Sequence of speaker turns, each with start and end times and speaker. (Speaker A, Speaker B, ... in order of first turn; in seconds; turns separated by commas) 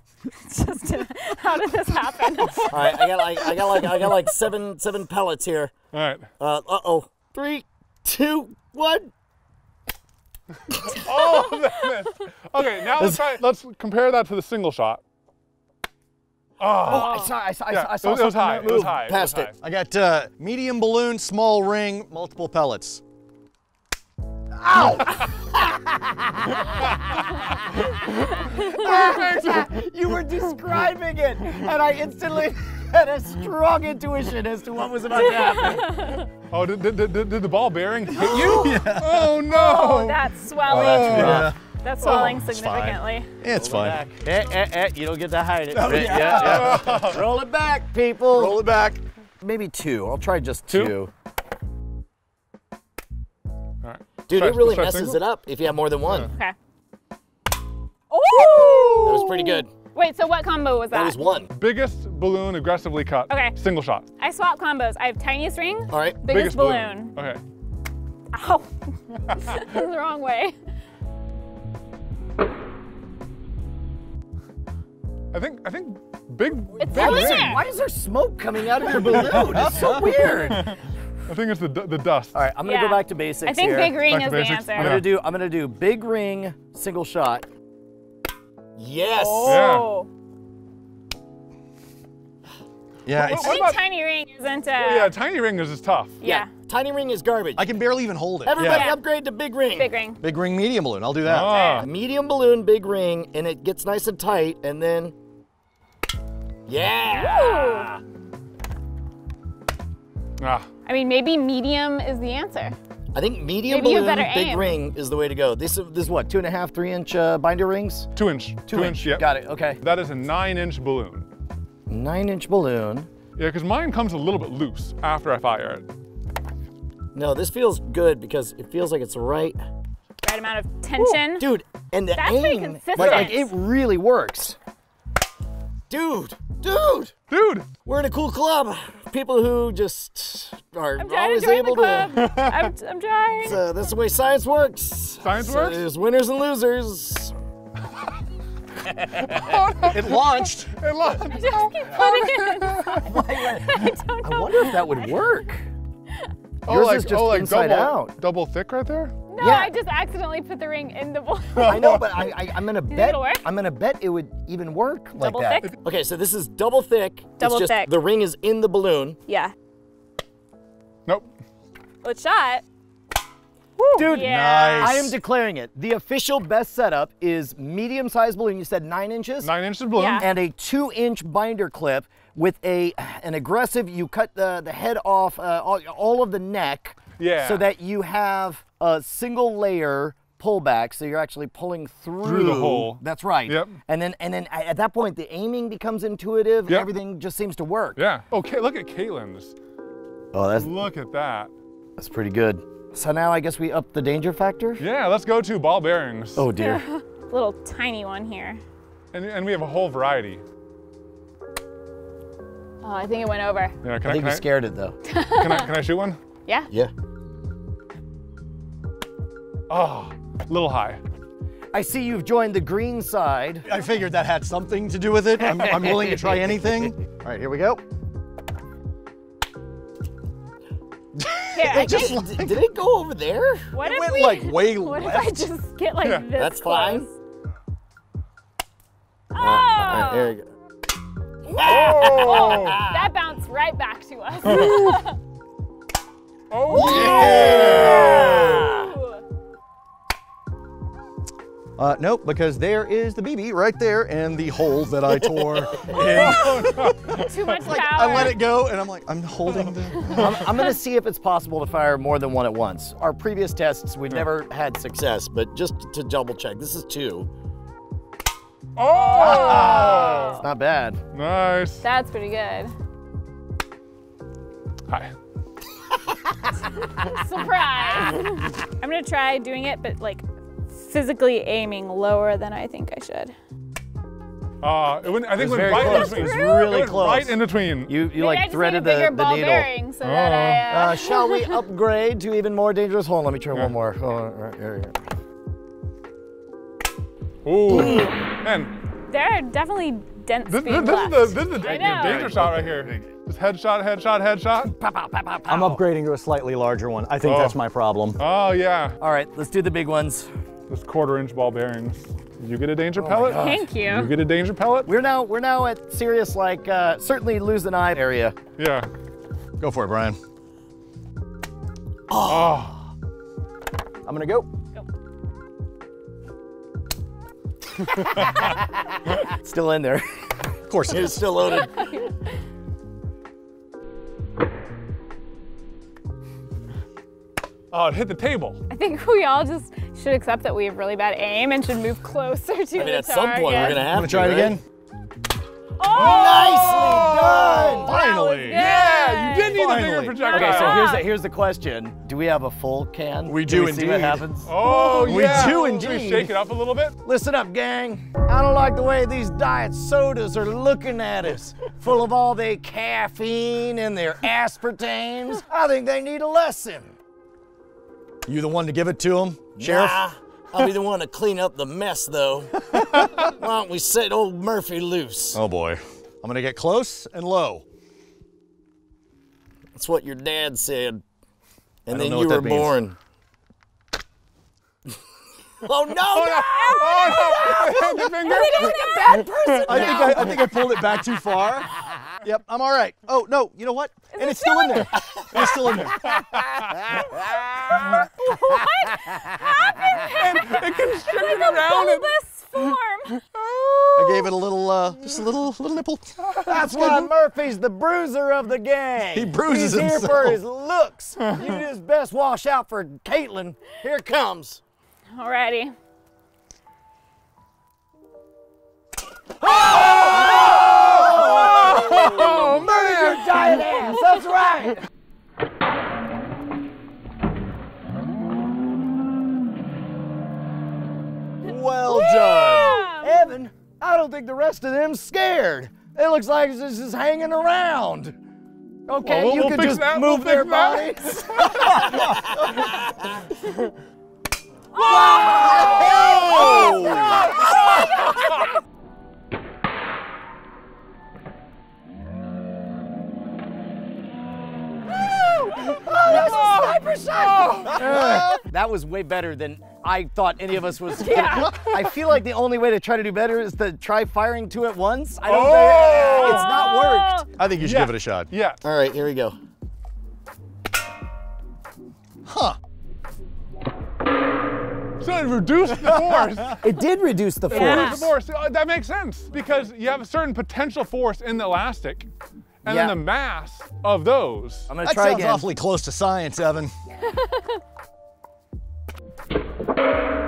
Speaker A: 0.4-3.8, Speaker B: 2.7-5.7, Speaker C: 5.9-6.3, Speaker B: 6.4-9.1, Speaker C: 10.8-15.0, Speaker C: 16.6-17.2, Speaker B: 16.8-19.5, Speaker A: 16.9-17.3, Speaker C: 17.7-19.5, Speaker D: 19.6-23.0, Speaker B: 24.6-35.9, Speaker C: 28.7-29.7, Speaker A: 35.1-36.3, Speaker C: 36.5-41.3, Speaker D: 38.1-39.4, Speaker A: 38.3-38.8, Speaker A: 39.5-43.3, Speaker D: 40.7-44.0, Speaker B: 40.7-41.5, Speaker B: 43.5-48.6, Speaker D: 45.7-47.2, Speaker C: 46.4-47.2, Speaker D: 48.3-49.0, Speaker B: 49.4-51.1, Speaker C: 53.8-55.2, Speaker B: 54.3-56.3, Speaker C: 56.1-56.3, Speaker A: 58.1-61.2, Speaker B: 59.0-59.7, Speaker B: 60.9-61.5, Speaker C: 61.5-64.1, Speaker A: 63.3-63.5, Speaker A: 64.2-67.1, Speaker B: 65.9-66.2, Speaker C: 66.2-67.4, Speaker A: 68.3-68.7, Speaker A: 69.3-70.5, Speaker C: 75.3-77.6, Speaker A: 76.8-77.6, Speaker B: 76.9-80.8, Speaker D: 79.0-80.3, Speaker C: 80.4-82.4, Speaker B: 82.3-84.0, Speaker A: 82.6-85.0, Speaker C: 84.0-85.1, Speaker B: 84.8-87.5, Speaker B: 88.8-89.7, Speaker A: 89.1-90.1, Speaker C: 89.4-89.9, Speaker D: 93.0-93.6, Speaker A: 93.1-95.2, Speaker C: 93.2-93.8, Speaker C: 94.7-96.2, Speaker A: 96.2-96.5, Speaker B: 96.2-97.7, Speaker D: 97.6-98.9, Speaker B: 98.4-99.9, Speaker A: 98.6-99.0, Speaker A: 99.7-100.2, Speaker D: 100.2-101.6, Speaker C: 101.2-101.9, Speaker A: 101.5-101.9, Speaker B: 101.8-105.1, Speaker B: 106.7-108.0, Speaker A: 107.1-107.9, Speaker C: 110.4-110.7, Speaker A: 110.9-112.8, Speaker B: 113.1-118.1, Speaker A: 113.7-114.8, Speaker C: 118.1-119.3, Speaker B: 118.7-119.8, Speaker C: 119.8-121.3, Speaker B: 121.9-123.1, Speaker C: 123.4-125.9, Speaker B: 127.1-129.6, Speaker A: 130.2-131.5, Speaker B: 131.0-134.6, Speaker A: 132.1-133.5, Speaker B: 135.9-137.1, Speaker C: 137.3-137.7, Speaker B: 137.8-142.2, Speaker A: 141.0-143.6, Speaker C: 142.2-142.6, Speaker B: 143.4-147.3, Speaker C: 145.2-145.8, Speaker C: 149.1-153.1, Speaker D: 149.8-150.7, Speaker A: 151.2-155.1, Speaker B: 153.1-155.7, Speaker B: 156.7-158.1, Speaker C: 156.7-159.1, Speaker A: 159.3-161.8, Speaker B: 159.4-159.7, Speaker C: 161.6-162.0, Speaker B: 161.6-169.2, Speaker A: 162.9-163.4, Speaker A: 165.2-165.8, Speaker A: 167.4-167.9, Speaker A: 169.3-169.5, Speaker C: 171.1-171.3, Speaker A: 172.0-172.6, Speaker B: 173.9-179.5, Speaker D: 174.0-175.2, Speaker A: 174.1-175.0, Speaker C: 179.4-180.3, Speaker A: 179.9-180.3, Speaker B: 180.2-198.0, Speaker C: 187.2-187.6, Speaker C: 192.2-193.8, Speaker C: 197.9-199.6, Speaker B: 200.3-200.8, Speaker C: 200.6-201.5, Speaker B: 202.0-204.8, Speaker C: 204.8-206.5, Speaker B: 206.4-206.8, Speaker A: 206.6-208.6, Speaker C: 209.1-210.4, Speaker A: 212.8-213.8, Speaker C: 213.8-214.4, Speaker B: 214.0-214.9, Speaker A: 215.1-215.7, Speaker C: 215.4-216.2, Speaker C: 219.7-221.0, Speaker B: 221.7-223.7, Speaker D: 223.7-227.8, Speaker B: 225.4-226.7, Speaker B: 231.2-233.7, Speaker A: 231.5-232.2, Speaker D: 231.6-232.6, Speaker A: 233.7-237.1, Speaker D: 233.8-235.4, Speaker C: 236.0-236.3, Speaker B: 236.4-237.1, Speaker A: 239.3-240.3, Speaker B: 239.4-240.5, Speaker B: 241.5-243.1, Speaker C: 241.6-242.8, Speaker A: 241.8-245.2, Speaker C: 246.5-248.6, Speaker B: 246.7-248.8, Speaker D: 246.7-248.2, Speaker A: 246.9-249.2, Speaker D: 251.8-260.6, Speaker C: 256.1-257.2, Speaker A: 257.0-258.5, Speaker C: 259.5-260.1, Speaker B: 260.1-267.3, Speaker C: 268.8-270.4, Speaker A: 268.9-270.4, Speaker B: 269.2-271.0, Speaker C: 271.1-271.8, Speaker A: 271.8-272.7, Speaker C: 274.9-275.1, Speaker A: 276.9-283.3, Speaker C: 284.6-287.9, Speaker B: 285.3-289.7, Speaker A: 285.7-286.9, Speaker A: 288.1-291.5, Speaker C: 290.0-290.7, Speaker B: 290.7-295.0, Speaker C: 297.4-298.8, Speaker B: 297.7-298.1, Speaker A: 299.1-302.4, Speaker C: 300.5-304.7, Speaker B: 301.6-302.7, Speaker D: 302.0-302.4, Speaker B: 304.6-305.8, Speaker D: 305.5-308.2, Speaker C: 307.2-307.6, Speaker C: 308.2-309.0, Speaker B: 309.0-310.3, Speaker C: 310.7-314.9, Speaker B: 313.0-313.7, Speaker A: 313.4-314.1, Speaker B: 314.9-318.4, Speaker C: 318.6-318.9, Speaker D: 319.6-320.2, Speaker B: 322.1-322.8, Speaker C: 322.2-322.8, Speaker D: 324.1-324.5, Speaker B: 327.9-331.9, Speaker D: 330.7-331.3, Speaker A: 331.5-332.1, Speaker C: 337.7-338.6, Speaker A: 338.7-343.9, Speaker B: 342.8-344.6, Speaker D: 343.9-344.6, Speaker A: 345.8-346.9, Speaker B: 345.9-347.9, Speaker C: 346.5-347.6, Speaker D: 347.0-348.8, Speaker A: 347.7-351.1, Speaker C: 348.5-350.9, Speaker D: 349.5-350.3, Speaker B: 350.3-356.3, Speaker D: 353.2-354.3, Speaker C: 354.5-357.0, Speaker D: 355.0-355.9, Speaker B: 357.0-366.9, Speaker D: 368.3-370.0, Speaker B: 369.6-375.4, Speaker D: 375.3-377.6, Speaker B: 379.8-381.0, Speaker B: 381.9-383.0, Speaker D: 381.9-382.8, Speaker B: 385.6-390.6, Speaker C: 386.1-389.8, Speaker A: 388.2-390.4, Speaker D: 389.6-396.0, Speaker A: 394.1-394.9, Speaker C: 395.3-397.1, Speaker B: 396.8-398.3, Speaker C: 397.8-398.1, Speaker A: 397.9-403.2, Speaker C: 400.1-403.7, Speaker D: 404.0-407.1, Speaker B: 406.4-414.6, Speaker D: 409.1-410.4, Speaker A: 415.1-415.7, Speaker B: 419.4-424.9, Speaker C: 420.0-422.5, Speaker D: 431.4-432.8, Speaker A: 431.7-433.3, Speaker B: 432.4-438.1, Speaker B: 438.9-443.3, Speaker C: 439.0-441.5, Speaker A: 444.7-447.6, Speaker B: 444.8-448.4, Speaker C: 445.8-447.9, Speaker B: 455.4-467.2, Speaker C: 457.3-457.7, Speaker D: 457.7-458.4, Speaker A: 461.0-461.6, Speaker C: 465.2-466.5, Speaker A: 466.0-467.3, Speaker D: 467.3-468.3, Speaker C: 467.6-468.6, Speaker B: 468.6-469.4, Speaker D: 472.2-472.6, Speaker C: 475.0-476.6, Speaker D: 475.9-476.3, Speaker B: 476.6-478.1, Speaker A: 477.5-478.1, Speaker C: 477.5-482.1, Speaker C: 482.6-484.7, Speaker B: 482.6-483.0, Speaker B: 484.7-485.5, Speaker D: 484.8-486.7, Speaker A: 487.1-487.5